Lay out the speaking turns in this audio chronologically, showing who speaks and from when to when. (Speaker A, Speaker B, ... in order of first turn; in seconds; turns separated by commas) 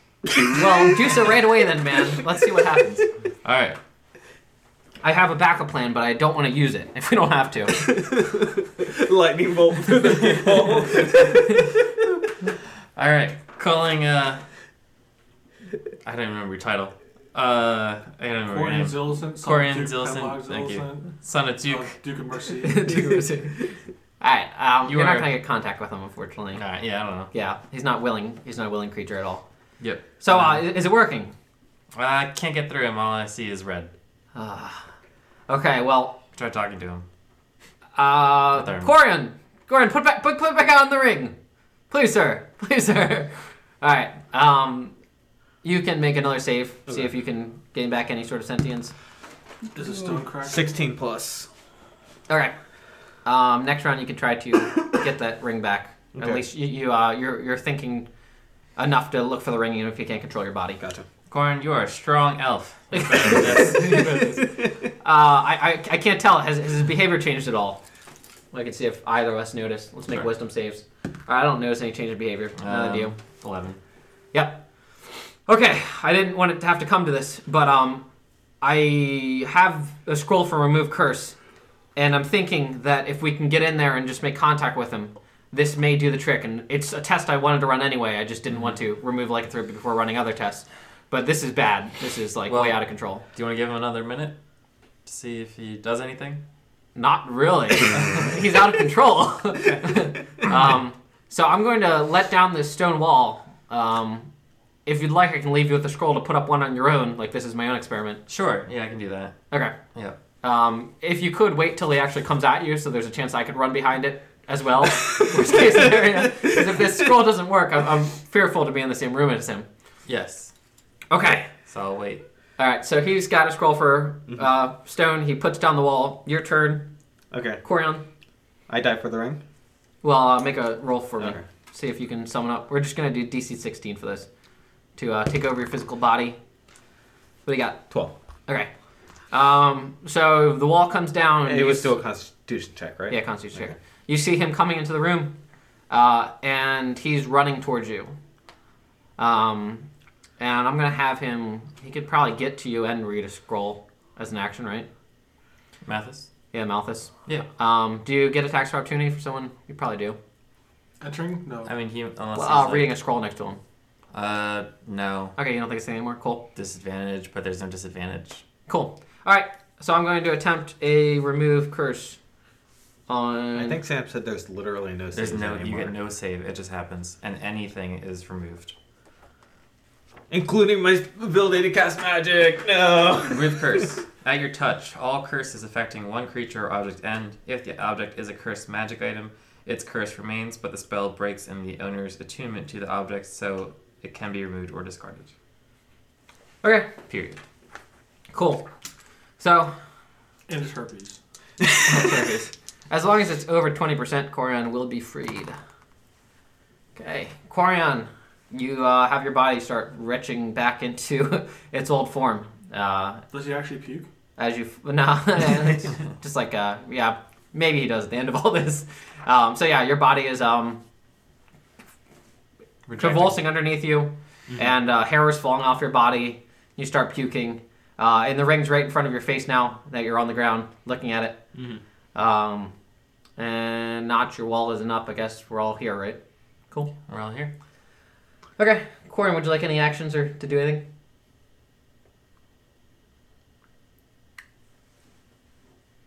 Speaker A: 0.5-3.1, Speaker B: 3.4-3.8, Speaker A: 5.0-7.8, Speaker C: 7.7-11.8, Speaker B: 12.9-14.4, Speaker B: 16.0-21.9, Speaker D: 18.5-21.1, Speaker D: 21.7-23.0, Speaker A: 22.6-23.7, Speaker A: 24.2-26.6, Speaker B: 24.8-25.3, Speaker B: 26.5-27.3, Speaker A: 27.3-29.4, Speaker B: 29.8-30.6, Speaker A: 30.2-31.3, Speaker B: 31.9-33.9, Speaker A: 34.3-34.9, Speaker A: 35.5-36.2, Speaker B: 36.3-37.0, Speaker A: 38.0-41.3, Speaker B: 38.5-38.9, Speaker A: 41.9-44.9, Speaker A: 45.6-48.9, Speaker D: 49.7-50.6, Speaker C: 50.4-51.5, Speaker A: 52.3-52.5, Speaker A: 53.2-58.1, Speaker C: 56.1-56.4, Speaker A: 58.8-60.8, Speaker C: 60.8-61.0, Speaker B: 61.3-64.4, Speaker A: 62.9-64.4, Speaker A: 65.0-67.8, Speaker A: 68.5-73.1, Speaker B: 72.6-73.8, Speaker A: 74.3-78.0, Speaker A: 78.6-81.4, Speaker A: 81.9-93.2, Speaker B: 92.5-94.3, Speaker B: 95.0-96.4, Speaker A: 97.0-104.3, Speaker A: 104.8-108.2, Speaker B: 108.3-110.2, Speaker A: 109.5-109.8, Speaker A: 110.4-119.7, Speaker C: 116.3-116.8, Speaker B: 120.1-120.5, Speaker A: 121.1-121.5, Speaker B: 121.7-122.2, Speaker A: 122.6-126.9, Speaker C: 127.3-127.6, Speaker A: 127.6-128.0, Speaker C: 128.7-129.4, Speaker A: 130.0-134.3, Speaker C: 131.2-131.4, Speaker A: 134.9-136.4, Speaker A: 137.4-137.8, Speaker A: 139.3-141.9, Speaker C: 141.4-143.8, Speaker A: 143.1-145.3, Speaker A: 145.9-148.1, Speaker A: 149.2-149.9, Speaker A: 150.4-154.9, Speaker B: 155.8-156.3, Speaker A: 156.5-160.2, Speaker D: 161.0-161.7, Speaker B: 161.6-162.9, Speaker A: 162.3-163.6, Speaker B: 164.1-165.3, Speaker A: 165.4-166.4, Speaker B: 166.5-168.4, Speaker A: 168.7-172.2, Speaker A: 173.1-173.8, Speaker C: 173.5-175.9, Speaker B: 175.1-178.7, Speaker C: 180.3-183.9, Speaker B: 183.1-195.3, Speaker A: 196.6-196.9, Speaker B: 197.1-197.4, Speaker A: 198.3-198.7, Speaker A: 199.4-199.7, Speaker D: 200.5-201.2, Speaker A: 201.8-205.6, Speaker A: 206.9-213.2, Speaker D: 213.3-214.1, Speaker A: 214.4-220.8, Speaker B: 222.9-223.4, Speaker A: 223.0-231.4, Speaker C: 231.5-231.8, Speaker A: 232.1-232.7, Speaker A: 233.4-236.2, Speaker B: 237.0-237.5, Speaker A: 238.6-240.8